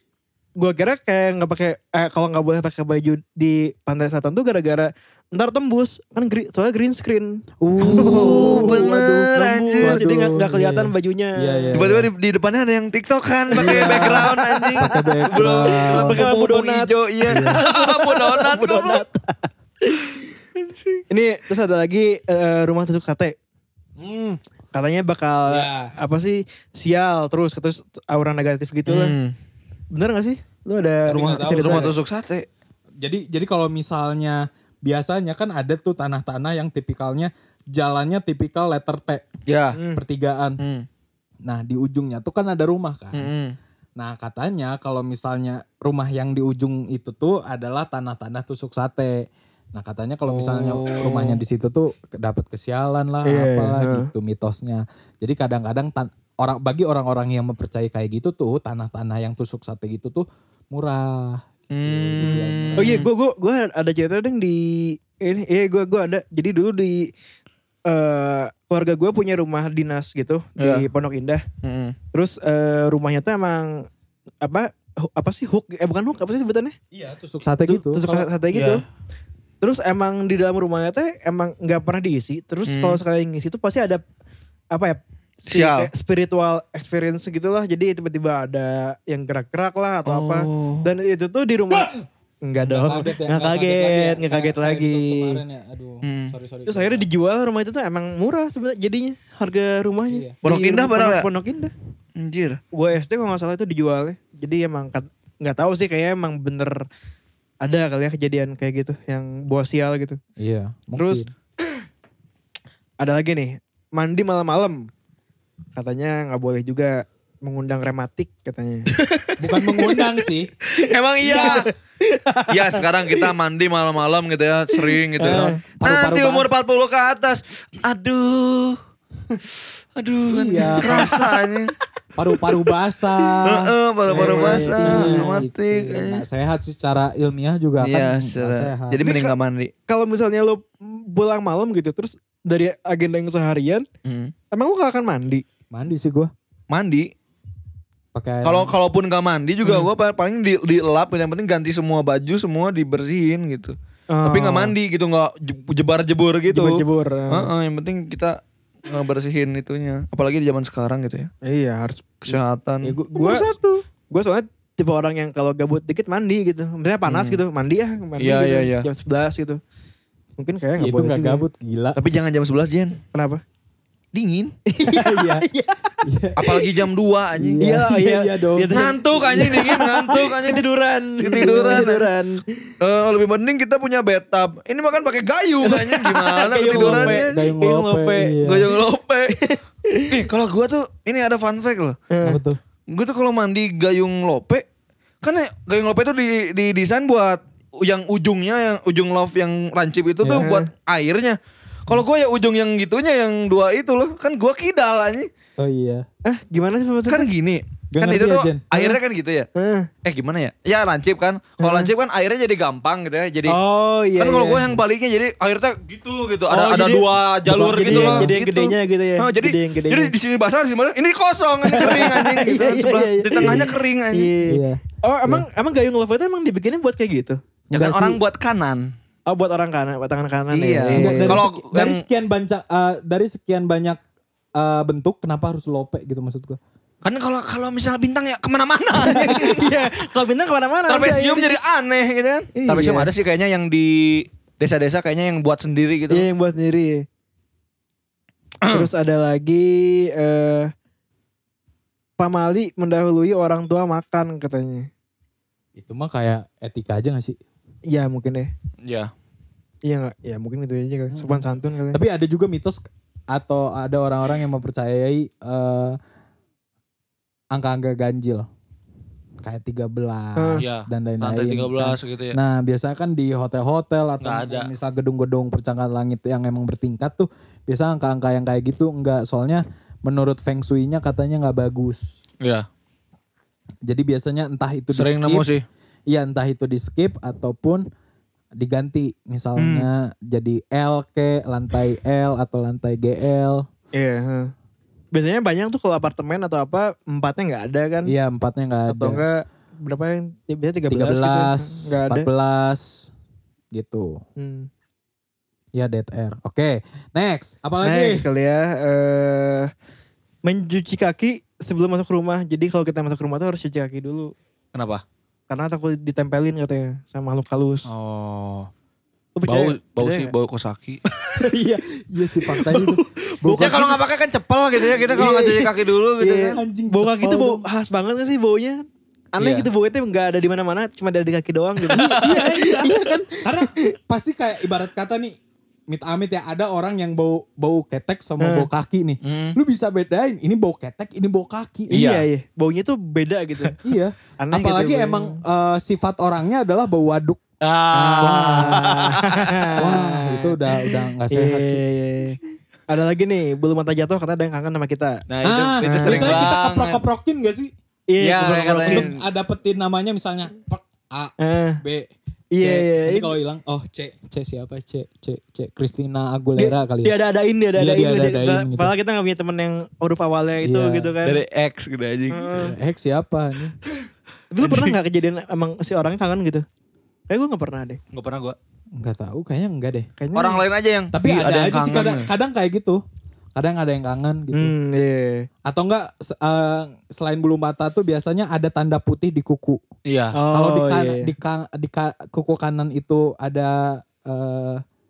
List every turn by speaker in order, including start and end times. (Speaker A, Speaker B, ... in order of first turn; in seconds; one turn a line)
Speaker A: 0.6-11.8
Speaker B: 7.6-12.1
Speaker C: 7.8-10.0
Speaker C: 11.7-19.0
Speaker A: 13.5-20.2
Speaker B: 13.5-16.2
Speaker B: 17.3-17.6
Speaker A: 21.1-23.3
Speaker B: 24.0-24.4
Speaker A: 24.7-29.2
Speaker B: 25.5-25.9
Speaker C: 28.9-29.3
Speaker A: 29.9-31.9
Speaker B: 31.1-31.9
Speaker C: 31.1-32.5
Speaker B: 33.0-39.3
Speaker C: 39.5-39.8
Speaker A: 39.7-40.0
Speaker B: 39.9-40.6
Speaker C: 40.6-40.9
Speaker B: 41.5-43.3
Speaker C: 43.1-43.5
Speaker B: 44.0-63.0
Speaker C: 50.3-51.4
Speaker A: 53.2-54.1
Speaker C: 61.7-63.1
Speaker A: 62.8-67.1
Speaker A: 67.9-71.4
Speaker C: 70.6-70.8
Speaker C: 71.6-72.0
Speaker A: 72.1-73.8
Speaker A: 74.4-76.8
Speaker B: 76.9-78.3
Speaker A: 77.6-78.8
Speaker C: 78.5-78.8
Speaker A: 79.6-84.0
Speaker C: 82.7-83.0
Speaker A: 84.7-91.9
Speaker C: 85.5-85.9
Speaker C: 90.0-90.9
Speaker B: 91.7-92.0
Speaker A: 92.4-95.4
Speaker B: 92.6-97.1
Speaker C: 96.0-96.3
Speaker A: 96.7-101.7
Speaker B: 100.1-100.3
Speaker C: 100.4-101.3
Speaker C: 102.2-102.6
Speaker A: 102.7-106.8
Speaker A: 107.6-110.2
Speaker B: 110.4-111.3
Speaker A: 111.0-111.2
Speaker A: 113.0-114.9
Speaker A: 115.8-118.9
Speaker C: 118.9-119.3
Speaker B: 119.4-120.5
Speaker C: 120.8-121.7
Speaker A: 120.8-123.3
Speaker C: 122.5-128.8
Speaker A: 124.9-125.6
Speaker B: 125.2-126.5
Speaker C: 129.5-131.7
Speaker B: 130.3-131.2
Speaker B: 132.2-139.0
Speaker C: 133.4-136.2
Speaker A: 134.1-135.4
Speaker C: 137.8-139.7
Speaker A: 139.0-139.3
Speaker A: 139.9-143.8
Speaker C: 144.0-144.3
Speaker A: 144.5-145.4
Speaker B: 145.7-146.3
Speaker C: 146.7-147.1
Speaker B: 148.1-148.7
Speaker C: 148.4-161.3
Speaker A: 149.6-149.9
Speaker A: 154.1-154.7
Speaker A: 156.5-157.5
Speaker A: 161.4-162.2
Speaker C: 162.2-163.0
Speaker B: 162.3-163.7
Speaker A: 163.1-163.5
Speaker A: 164.1-169.6
Speaker C: 167.1-167.4
Speaker C: 168.2-168.8
Speaker A: 170.4-171.4
Speaker B: 170.8-172.0
Speaker C: 171.9-173.0
Speaker A: 173.1-173.4
Speaker C: 174.1-174.5
Speaker A: 174.7-175.9
Speaker B: 174.8-175.4
Speaker B: 176.0-176.6
Speaker C: 176.4-177.8
Speaker B: 177.3-179.6
Speaker A: 177.6-182.4
Speaker C: 178.7-180.6
Speaker C: 181.2-182.0
Speaker B: 181.4-181.9
Speaker C: 182.8-187.4
Speaker A: 185.6-188.4
Speaker B: 186.6-188.7
Speaker C: 188.4-189.3
Speaker A: 189.3-190.2
Speaker C: 190.1-192.0
Speaker A: 192.1-192.4
Speaker B: 192.2-192.6
Speaker C: 192.9-194.6
Speaker C: 195.2-205.3
Speaker B: 200.2-200.5
Speaker A: 200.4-200.7
Speaker B: 205.6-206.1
Speaker A: 206.2-207.3
Speaker C: 207.1-209.5
Speaker B: 207.9-208.7
Speaker A: 208.7-209.0
Speaker A: 209.5-209.9
Speaker C: 210.0-213.6
Speaker A: 211.6-211.9
Speaker A: 213.5-214.7
Speaker C: 214.2-224.3
Speaker A: 216.5-220.1
Speaker B: 217.5-218.3
Speaker A: 221.6-227.4
Speaker B: 224.5-225.4
Speaker B: 227.7-228.2
Speaker C: 227.7-228.9
Speaker A: 229.3-231.4
Speaker C: 230.5-232.0
Speaker B: 230.9-234.0
Speaker B: 234.6-236.6
Speaker C: 237.0-239.7
Speaker A: 239.0-241.6
Speaker C: 240.9-246.2
Speaker A: 242.6-243.1
Speaker A: 246.1-247.0
Speaker C: 248.6-248.9
Speaker A: 248.7-250.7
Speaker A: 252.2-254.9
Speaker B: 255.8-257.4
Speaker A: 257.9-258.5
Speaker C: 258.8-259.1
Speaker A: 259.8-262.0
Speaker B: 261.1-262.8
Speaker B: 263.3-266.0
Speaker B: 267.5-268.5
Speaker B: 269.4-282.2
Speaker A: 270.4-270.6
Speaker C: 270.6-272.4
Speaker C: 274.2-274.7
Speaker C: 282.4-282.6
Speaker B: 283.9-285.5
Speaker C: 284.9-285.6
Speaker B: 286.1-287.9
Speaker B: 288.6-293.7
Speaker A: 289.6-289.9
Speaker A: 293.9-294.5
Speaker A: 295.1-298.1
Speaker B: 298.1-299.2
Speaker A: 298.9-302.3
Speaker B: 300.9-303.1
Speaker B: 303.7-304.2
Speaker A: 304.4-304.7
Speaker B: 305.7-308.2
Speaker A: 307.8-309.7
Speaker A: 310.4-314.3
Speaker C: 314.7-315.0
Speaker A: 315.5-317.9
Speaker C: 317.9-318.7
Speaker A: 319.4-320.3
Speaker C: 319.5-321.0
Speaker B: 321.4-323.9
Speaker A: 322.5-324.0
Speaker C: 323.6-326.6
Speaker A: 324.8-333.9
Speaker B: 326.5-327.6
Speaker C: 329.4-329.7
Speaker C: 331.9-332.2
Speaker B: 331.9-335.3
Speaker B: 335.9-341.9
Speaker A: 338.4-338.7
Speaker C: 339.2-339.6
Speaker A: 341.9-343.8
Speaker C: 341.9-342.3
Speaker B: 343.8-347.4
Speaker A: 344.4-345.4
Speaker C: 347.6-349.7
Speaker B: 347.9-348.9
Speaker A: 348.4-350.6
Speaker B: 349.8-351.8
Speaker A: 351.3-355.2
Speaker C: 355.3-357.0
Speaker B: 355.4-357.7
Speaker A: 355.8-356.4
Speaker A: 358.1-359.1
Speaker C: 358.2-359.2
Speaker B: 358.9-367.1
Speaker A: 361.4-361.8
Speaker A: 362.5-363.3
Speaker A: 366.6-371.4
Speaker B: 367.8-368.9
Speaker B: 370.6-371.1
Speaker C: 371.2-372.7
Speaker A: 372.3-372.7
Speaker B: 372.6-373.8
Speaker A: 374.5-376.6
Speaker C: 374.6-374.9
Speaker A: 377.3-378.0
Speaker C: 378.1-378.6
Speaker B: 378.9-380.1
Speaker A: 380.2-380.6
Speaker C: 380.3-382.3
Speaker B: 381.1-383.0
Speaker B: 383.5-384.7
Speaker A: 384.5-385.4
Speaker B: 385.6-389.8
Speaker C: 390.1-390.4
Speaker A: 390.3-391.3
Speaker B: 390.5-394.8